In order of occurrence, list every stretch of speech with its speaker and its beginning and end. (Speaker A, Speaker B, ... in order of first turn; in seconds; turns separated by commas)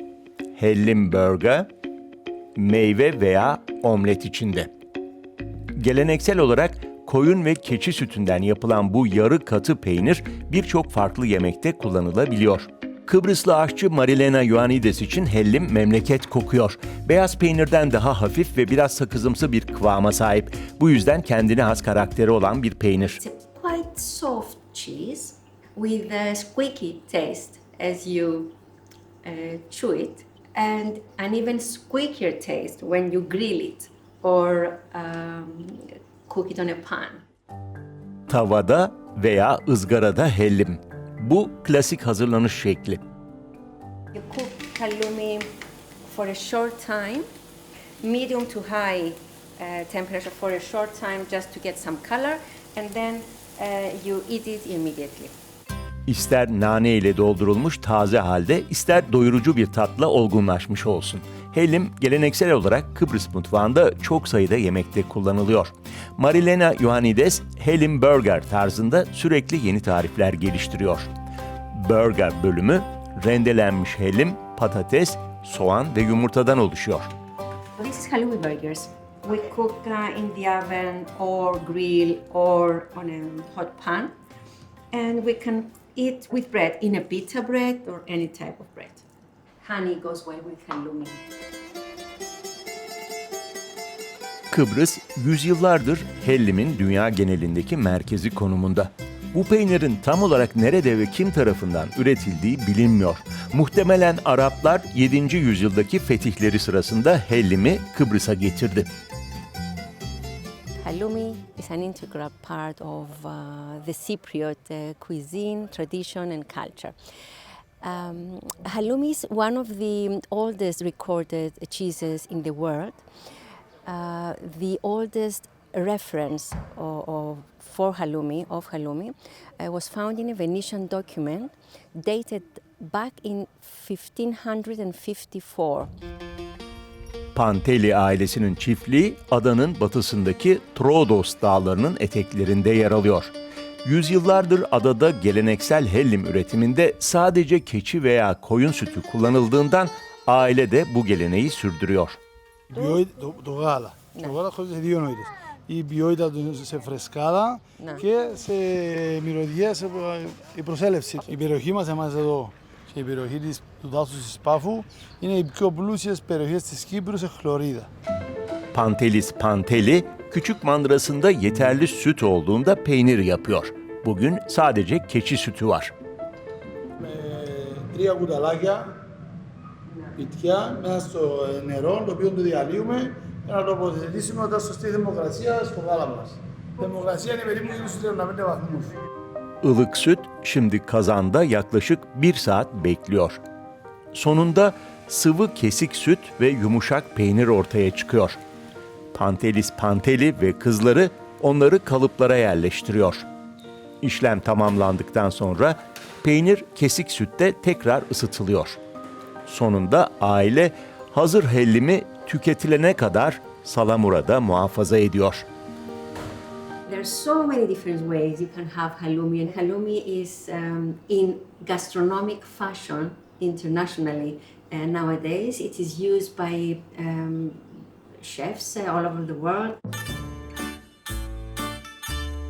Speaker A: 0.6-1.7, Speaker A: 2.6-4.7, Speaker A: 5.8-23.2, Speaker B: 23.2-28.6, Speaker B: 29.2-37.2, Speaker A: 38.3-43.0, Speaker B: 44.1-45.5, Speaker B: 46.0-47.2, Speaker B: 48.0-55.3, Speaker A: 56.1-71.1, Speaker A: 71.7-77.1, Speaker B: 77.8-84.1, Speaker B: 84.9-89.0, Speaker B: 89.6-91.2, Speaker A: 94.5-108.9, Speaker B: 110.8-117.0, Speaker B: 117.8-123.0, Speaker B: 123.9-135.9, Speaker A: 137.3-143.3, Speaker A: 143.8-152.2, Speaker C: 152.7-167.9, Speaker B: 157.8-158.0, Speaker A: 168.7-175.9, Speaker C: 177.0-179.0, Speaker C: 180.2-188.9, Speaker A: 189.6-193.4, Speaker A: 194.1-198.4, Speaker A: 199.1-203.2, Speaker A: 204.0-208.8, Speaker A: 209.5-215.5, Speaker B: 216.9-229.8